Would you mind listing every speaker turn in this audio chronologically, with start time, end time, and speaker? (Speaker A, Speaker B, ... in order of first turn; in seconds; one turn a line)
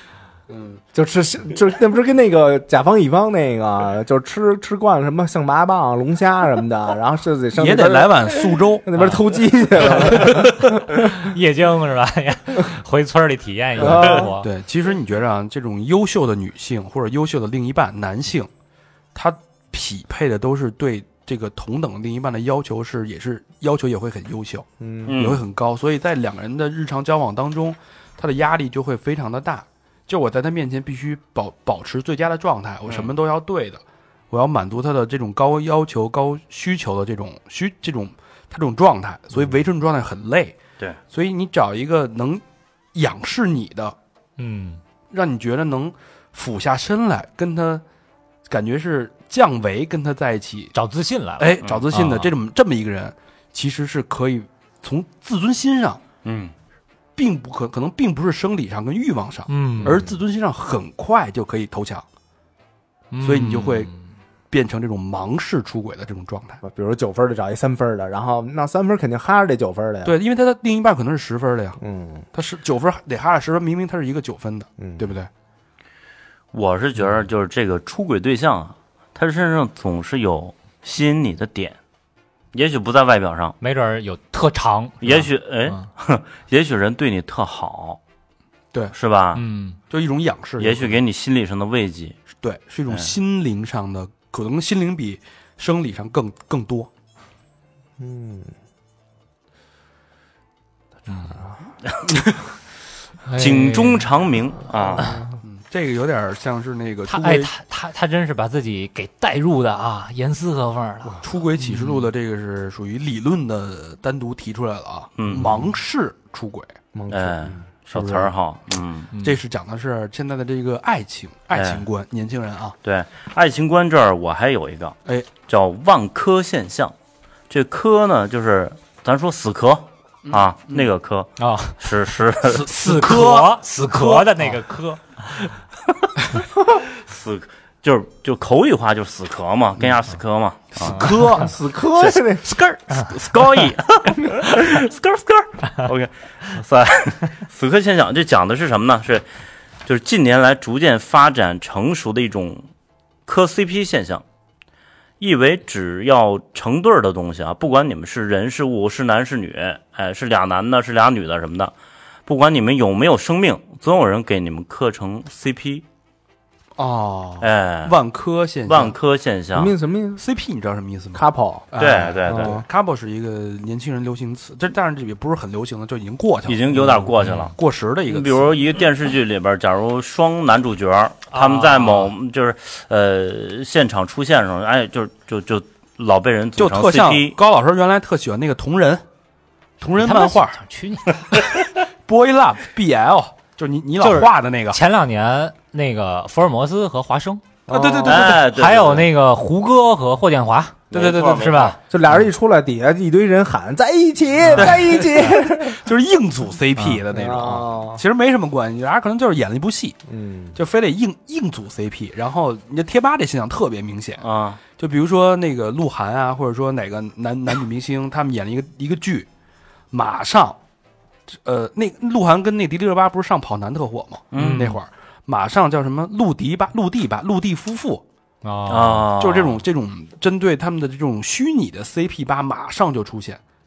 Speaker A: 0.5-0.8
Speaker B: 0.9-11.3
Speaker A: 7.5-9.0
Speaker C: 9.0-9.2
Speaker C: 9.8-10.6
Speaker A: 9.9-10.4
Speaker C: 11.1-14.5
Speaker B: 13.8-14.3
Speaker A: 13.8-18.5
Speaker A: 19.1-40.6
Speaker B: 24.8-25.2
Speaker D: 25.1-25.4
Speaker A: 41.1-42.4
Speaker A: 42.9-44.0
Speaker C: 44.4-44.8
Speaker A: 45.1-47.8
Speaker A: 48.5-50.7
Speaker C: 50.7-52.3
Speaker A: 51.4-56.0
Speaker D: 51.6-51.9
Speaker D: 56.2-56.5
Speaker A: 57.1-62.0
Speaker C: 59.5-60.0
Speaker C: 63.1-64.0
Speaker A: 63.2-63.9
Speaker A: 64.5-66.6
Speaker B: 66.6-70.2
Speaker A: 70.0-71.8
Speaker B: 71.8-72.3
Speaker A: 72.3-75.3
Speaker B: 74.8-75.1
Speaker D: 76.5-81.8
Speaker D: 82.5-83.5
Speaker C: 83.6-85.9
Speaker D: 85.0-88.0
Speaker D: 88.9-89.4
Speaker C: 89.3-89.8
Speaker A: 89.9-91.0
Speaker D: 90.6-92.2
Speaker A: 92.3-96.9
Speaker B: 98.0-98.5
Speaker C: 101.1-101.4
Speaker C: 103.2-104.1
Speaker D: 103.4-105.1
Speaker B: 105.0-105.3
Speaker A: 105.4-107.5
Speaker C: 107.1-112.1
Speaker A: 111.0-116.7
Speaker D: 115.2-115.7
Speaker B: 116.9-117.6
Speaker D: 117.1-119.1
Speaker A: 117.9-118.3
Speaker C: 119.1-119.4
Speaker A: 119.2-122.8
Speaker D: 121.5-121.8
Speaker D: 122.8-126.9
Speaker D: 127.5-132.7
Speaker A: 130.2-130.9
Speaker C: 131.4-131.9
Speaker A: 132.4-134.6
Speaker C: 132.7-135.5
Speaker D: 136.7-141.3
Speaker A: 139.8-140.0
Speaker A: 140.8-141.6
Speaker C: 140.8-141.5
Speaker B: 141.4-142.4
Speaker C: 142.4-143.1
Speaker A: 143.0-143.7
Speaker D: 143.1-149.2
Speaker D: 149.8-152.7
Speaker D: 153.2-154.2
Speaker D: 155.2-161.7
Speaker D: 162.2-165.8
Speaker A: 166.8-168.9
Speaker D: 167.4-168.0
Speaker D: 168.7-169.7
Speaker B: 169.5-170.2
Speaker A: 170.2-178.5
Speaker B: 171.1-171.7
Speaker D: 171.8-172.6
Speaker B: 172.2-172.6
Speaker D: 176.4-177.5
Speaker C: 177.2-177.5
Speaker D: 178.1-187.4
Speaker C: 181.3-182.1
Speaker A: 186.6-189.0
Speaker A: 189.8-190.6
Speaker C: 190.0-191.2
Speaker A: 191.3-194.8
Speaker C: 194.0-197.4
Speaker A: 197.7-198.5
Speaker B: 197.7-198.3
Speaker D: 198.0-199.1
Speaker C: 198.3-201.8
Speaker D: 200.9-201.8
Speaker A: 200.9-201.4
Speaker B: 201.9-205.8
Speaker C: 204.4-204.7
Speaker A: 204.6-210.0
Speaker C: 206.8-207.0
Speaker B: 207.1-208.0
Speaker B: 210.1-210.6
Speaker A: 210.5-219.3
Speaker D: 214.2-214.6
Speaker A: 219.9-220.6
Speaker A: 221.3-228.0
Speaker D: 224.3-224.7
Speaker C: 224.3-224.8
Speaker C: 228.4-229.1
Speaker D: 228.7-229.6
Speaker A: 229.2-233.4